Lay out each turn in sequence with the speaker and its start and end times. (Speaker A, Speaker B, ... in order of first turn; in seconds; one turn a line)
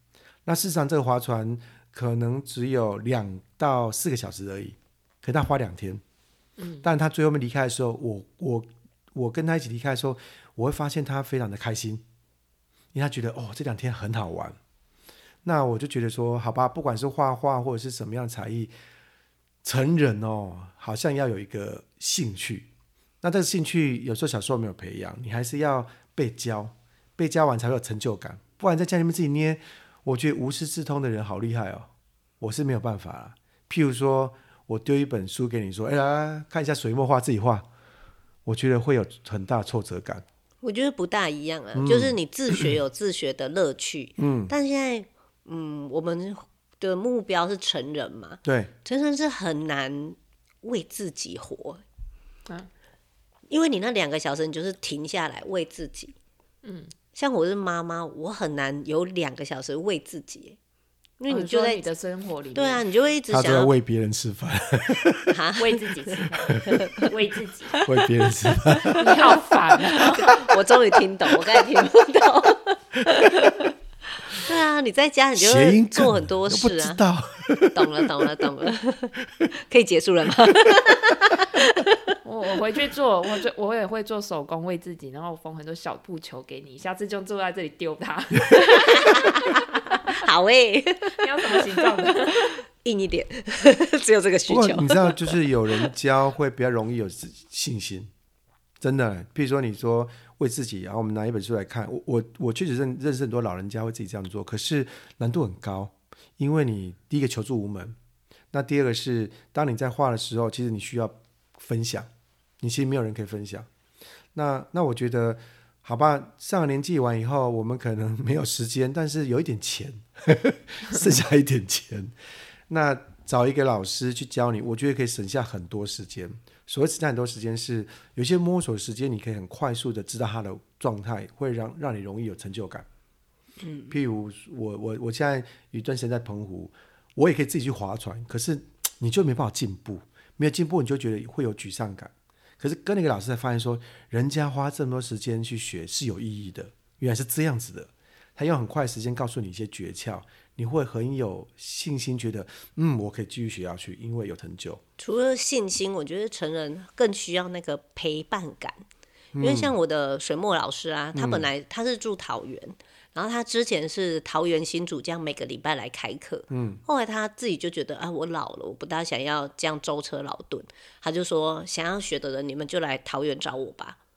Speaker A: 0.4-6.0
Speaker B: 6.6-6.9
Speaker A: 6.8-12.0
Speaker A: 12.9-14.6
Speaker A: 15.4-18.7
Speaker A: 19.6-22.7
Speaker A: 23.2-37.7
Speaker A: 38.5-40.2
Speaker C: 40.6-51.8
Speaker A: 41.7-42.7
Speaker A: 44.2-44.5
Speaker A: 48.4-48.7
Speaker C: 53.5-56.1
Speaker B: 56.6-56.9
Speaker C: 57.1-60.6
Speaker C: 61.2-61.8
Speaker B: 61.3-62.8
Speaker C: 62.5-63.7
Speaker A: 63.3-65.4
Speaker C: 65.3-66.2
Speaker B: 65.6-67.8
Speaker C: 67.7-68.8
Speaker A: 67.8-69.2
Speaker B: 68.9-70.5
Speaker C: 69.9-73.7
Speaker C: 74.2-77.0
Speaker A: 75.3-78.7
Speaker C: 77.7-82.2
Speaker B: 82.2-89.5
Speaker C: 88.6-95.9
Speaker B: 91.2-92.5
Speaker A: 94.5-98.1
Speaker A: 98.8-108.0
Speaker A: 108.5-112.1
Speaker A: 112.6-113.7
Speaker A: 114.3-122.1
Speaker A: 122.7-132.9
Speaker C: 133.6-133.9
Speaker A: 133.9-154.8
Speaker C: 155.0-158.8
Speaker A: 159.3-159.7
Speaker C: 159.4-174.0
Speaker A: 161.1-161.5
Speaker A: 166.5-166.8